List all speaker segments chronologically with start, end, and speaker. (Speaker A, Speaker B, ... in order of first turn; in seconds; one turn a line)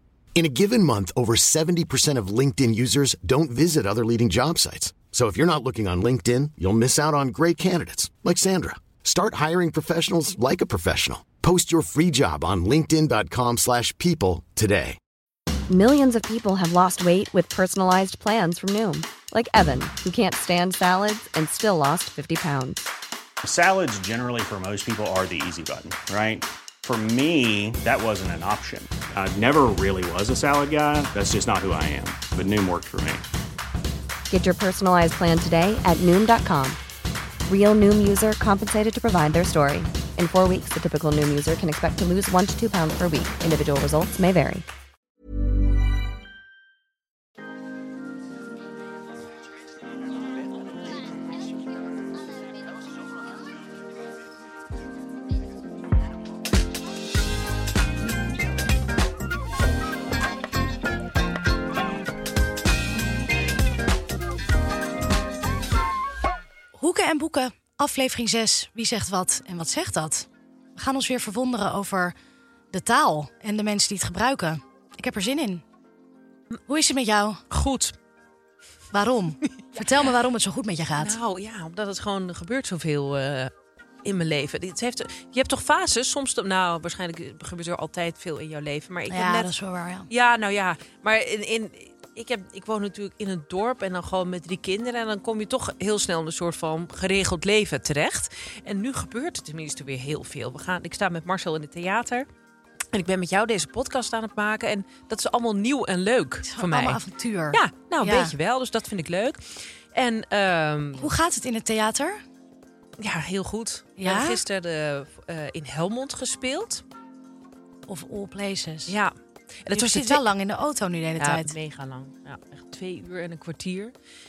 Speaker A: 0.3-15.0
Speaker B: 15.7-22.8
Speaker C: 23.4-33.2
Speaker B: 34.3-36.8
Speaker B: 37.5-44.6
Speaker D: 66.7-72.1
Speaker D: 72.7-75.6
Speaker D: 76.7-77.4
Speaker E: 77.5-77.9
Speaker D: 78.9-81.1
Speaker E: 79.7-80.1
Speaker E: 81.0-83.5
Speaker E: 84.0-89.5
Speaker D: 89.1-90.1
Speaker E: 90.1-102.3
Speaker E: 102.9-107.0
Speaker D: 106.5-108.3
Speaker E: 107.5-111.1
Speaker D: 111.0-112.2
Speaker E: 113.0-116.8
Speaker D: 114.0-114.4
Speaker D: 117.9-118.9
Speaker E: 118.9-119.1
Speaker E: 119.6-120.2
Speaker D: 119.7-121.5
Speaker E: 121.2-123.9